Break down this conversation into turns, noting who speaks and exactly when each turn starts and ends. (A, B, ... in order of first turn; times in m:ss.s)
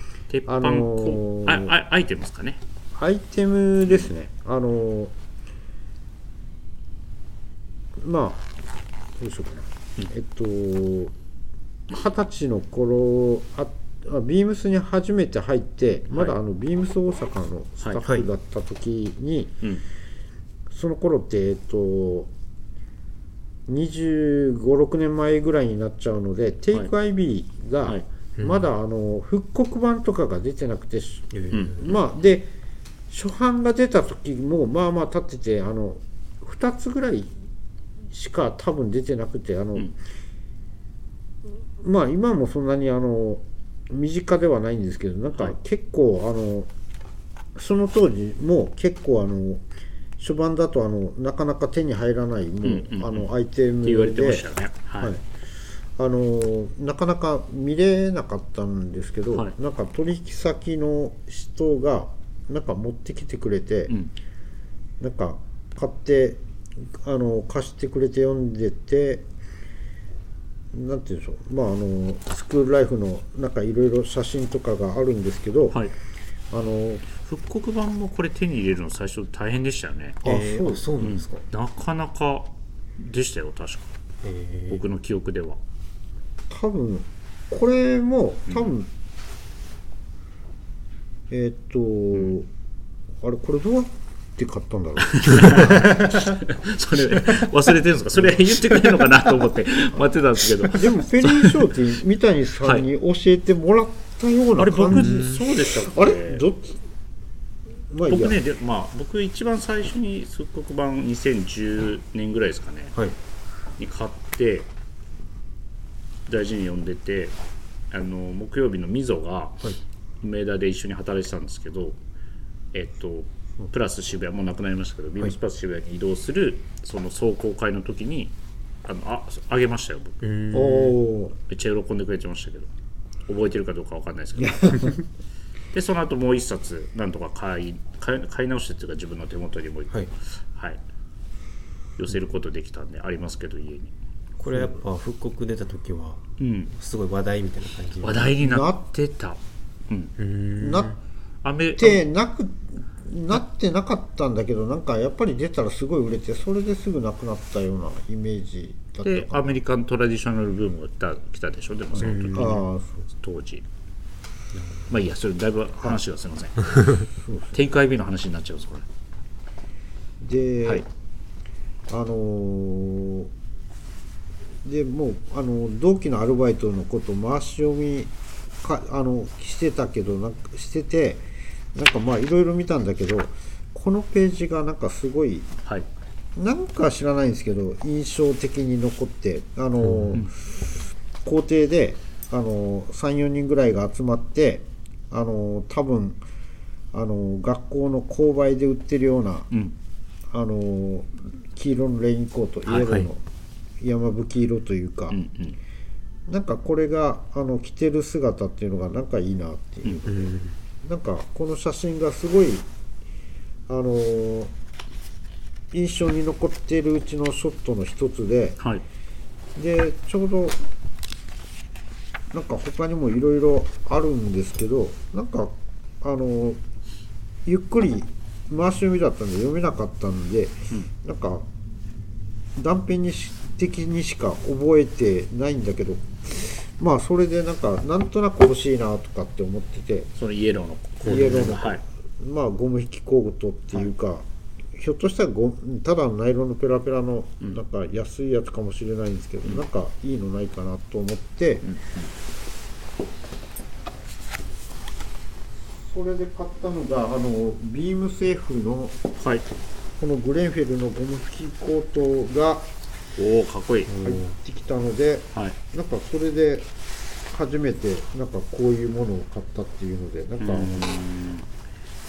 0:00.3-0:02.6 A
0:00.5-0:01.7 B
0:02.9-0:05.1 B
0:08.0-0:08.5 B
0:09.2-0:11.1 B
0:11.9-0:19.6 B
0:20.7-0:22.3 B
0:23.7-0:32.5 B
0:28.4-0:28.7 C
0:31.3-0:31.9 C
0:31.5-0:32.0 A
0:33.1-0:37.3 B
0:38.1-0:39.9 B
0:41.8-0:46.7 B
0:47.6-0:49.6 B
0:50.2-0:54.4 B
0:52.6-0:53.3 A
0:53.8-0:55.1 A
0:56.0-1:03.9 B
1:05.0-1:09.2 B
1:10.7-1:15.8 B
1:16.5-1:17.0 B
1:17.2-1:20.2 A
1:20.2-1:20.8 B
1:20.2-1:21.4 C
1:21.0-1:23.9 A
1:24.2-1:24.8 C
1:24.7-1:25.6 A
1:26.5-1:28.9 B
1:31.3-1:32.5 B
1:33.2-1:36.1 B
1:35.0-1:41.7 A
1:40.7-1:46.8 B
1:44.6-1:46.4 A
1:44.9-1:45.4 C
1:47.9-1:48.4 B
1:48.0-1:53.0 A
1:53.8-1:54.7 A
1:56.3-1:57.4 A
1:57.9-1:59.6 A
2:00.2-2:02.0 A
2:02.7-2:10.2 A
2:10.2-2:11.0 C
2:10.5-2:11.4 B
2:11.5-2:12.7 A
2:13.3-2:15.0 A
2:14.4-2:14.9 B
2:15.7-2:20.8 A
2:22.0-2:23.9 A
2:24.4-2:28.3 C
2:26.4-2:26.7 A
2:28.0-2:30.1 A
2:28.4-2:28.8 B
2:30.2-2:31.0 C
2:30.6-2:30.9 B
2:31.4-2:32.0 A
2:31.8-2:39.6 B
2:39.0-2:43.6 A
2:42.0-2:43.0 B
2:42.0-2:42.6 C
2:44.9-2:46.7 A
2:47.2-2:47.5 B
2:47.5-2:48.8 A
2:50.2-2:50.8 B
2:51.9-2:53.3 B
2:54.6-2:58.1 B
2:58.6-3:05.5 B
3:06.4-3:10.6 B
3:09.8-3:10.2 C
3:11.2-3:16.2 B
3:16.9-3:19.5 B
3:20.3-3:23.2 B
3:22.6-3:23.1 C
3:23.8-3:25.2 B
3:25.1-3:25.6 A
3:26.3-3:32.7 B
3:30.0-3:30.6 C
3:33.7-3:34.5 B
3:35.7-3:38.6 B
3:39.6-3:40.6 B
3:42.3-3:46.6 B
3:47.4-3:51.4 B
3:52.6-4:00.1 B
4:00.2-4:01.8 A
4:01.0-4:01.5 C
4:01.0-4:11.6 B
4:11.6-4:12.1 A
4:15.8-4:19.0 B
4:19.2-4:19.4 A
4:20.0-4:22.7 B
4:23.2-4:23.9 A
4:23.9-4:24.4 C
4:24.0-4:26.7 B
4:27.3-4:30.9 B
4:30.4-4:31.5 A